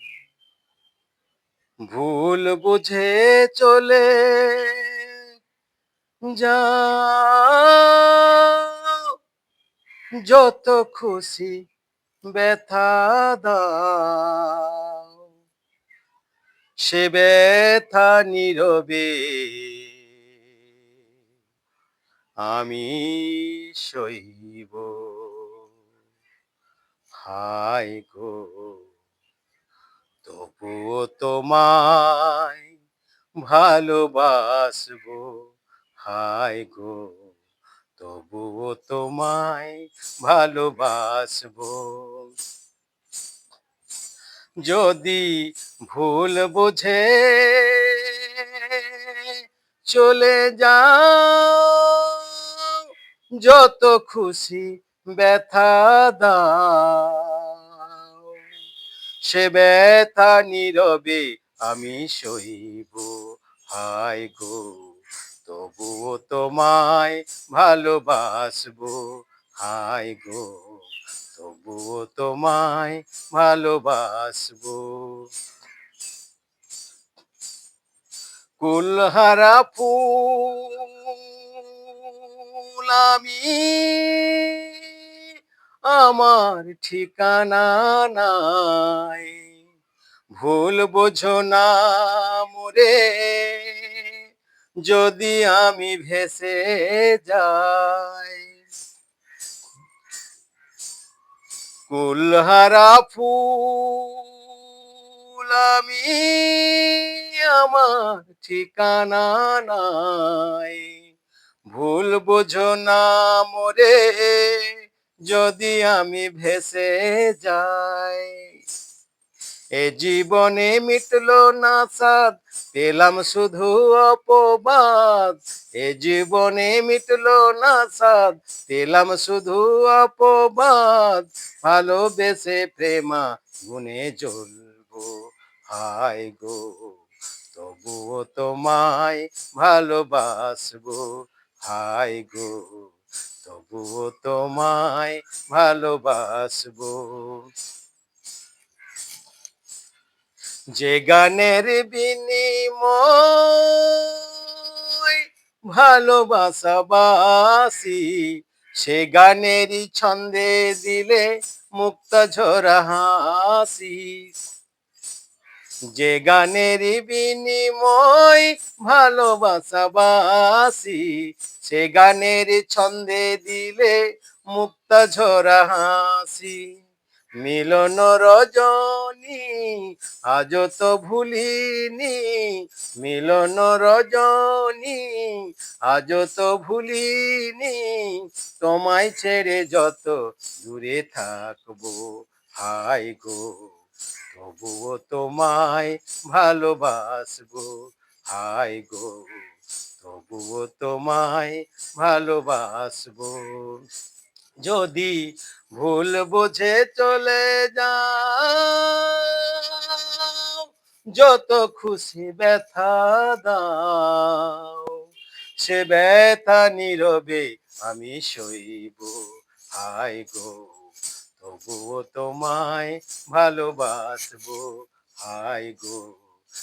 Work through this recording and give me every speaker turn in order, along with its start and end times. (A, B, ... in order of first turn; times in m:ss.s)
0:01.9-0:04.9 A
0:06.4-0:08.9 A
0:10.3-0:11.6 A
0:12.3-0:14.9 A
0:16.8-0:19.9 A
0:22.4-0:25.6 A
0:27.2-0:28.8 A
0:30.2-0:32.7 A
0:33.4-0:35.4 A
0:36.0-0:37.3 A
0:38.0-0:42.3 A
0:44.6-0:49.3 A
0:49.9-0:52.3 A
0:53.4-0:57.5 A
0:59.3-1:04.8 A
1:05.4-1:10.8 A
1:11.3-1:15.3 A
1:18.6-1:24.7 A
1:25.8-1:29.4 A
1:30.3-1:34.0 A
1:34.8-1:38.5 A
1:41.9-1:44.3 A
1:45.3-1:50.9 A
1:51.7-1:54.7 A
1:55.3-1:58.4 A
1:59.8-2:15.2 A
2:15.7-2:17.0 A
2:17.5-2:21.1 A
2:21.6-2:22.9 A
2:23.4-2:27.4 A
2:30.8-2:34.3 A
2:34.9-2:35.2 A
2:35.7-2:44.3 A
2:45.9-2:54.0 A
2:54.5-2:56.6 A
2:57.4-3:13.7 A
3:14.3-3:17.7 A
3:18.2-3:19.4 A
3:20.0-3:23.8 A
3:24.6-3:25.2 A
3:25.7-3:35.0 A
3:35.6-3:40.7 A
3:41.4-3:46.2 A